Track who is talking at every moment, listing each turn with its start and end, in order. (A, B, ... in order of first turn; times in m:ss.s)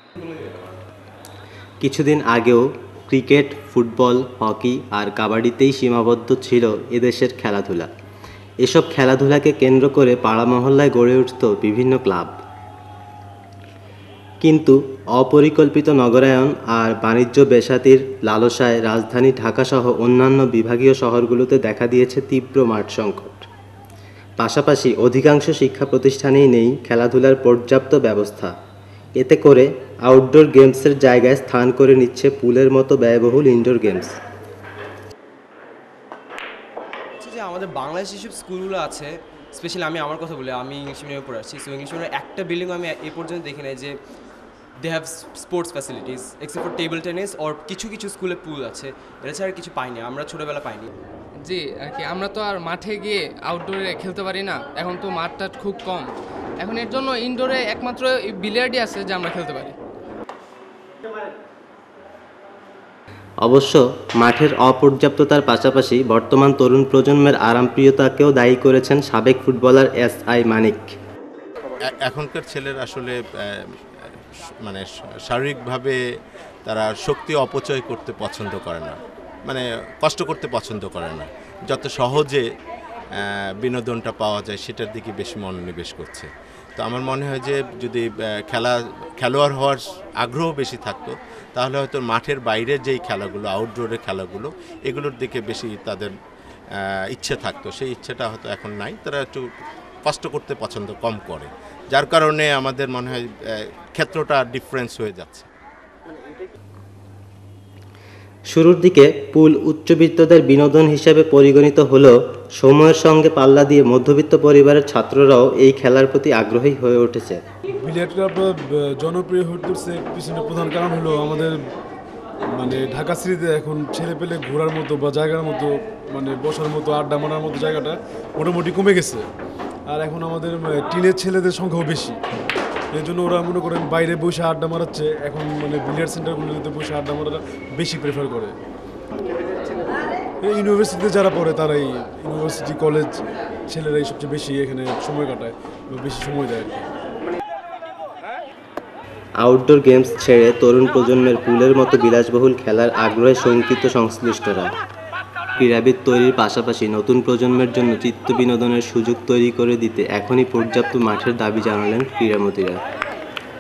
0:01.8-0:07.9 A
0:08.6-0:12.4 A
0:14.4-0:23.5 A
0:24.4-0:28.5 A
0:29.2-0:34.2 A
0:37.2-0:44.0 B
0:44.8-0:50.9 B
0:51.4-0:56.1 C
0:56.6-0:59.8 C
1:03.4-1:11.0 A
1:11.9-1:13.2 D
1:14.6-1:16.0 D
1:16.6-1:18.9 D
1:19.5-1:22.4 D
1:23.2-1:36.1 D
1:36.8-1:39.5 D
1:40.0-1:43.2 D
1:44.0-1:45.5 D
1:48.5-1:57.4 A
1:57.8-2:01.6 E
2:02.5-2:09.2 E
2:09.9-2:12.2 E
2:12.9-2:18.6 E
2:20.4-2:26.8 E
2:29.4-2:34.7 A
2:35.6-2:42.8 A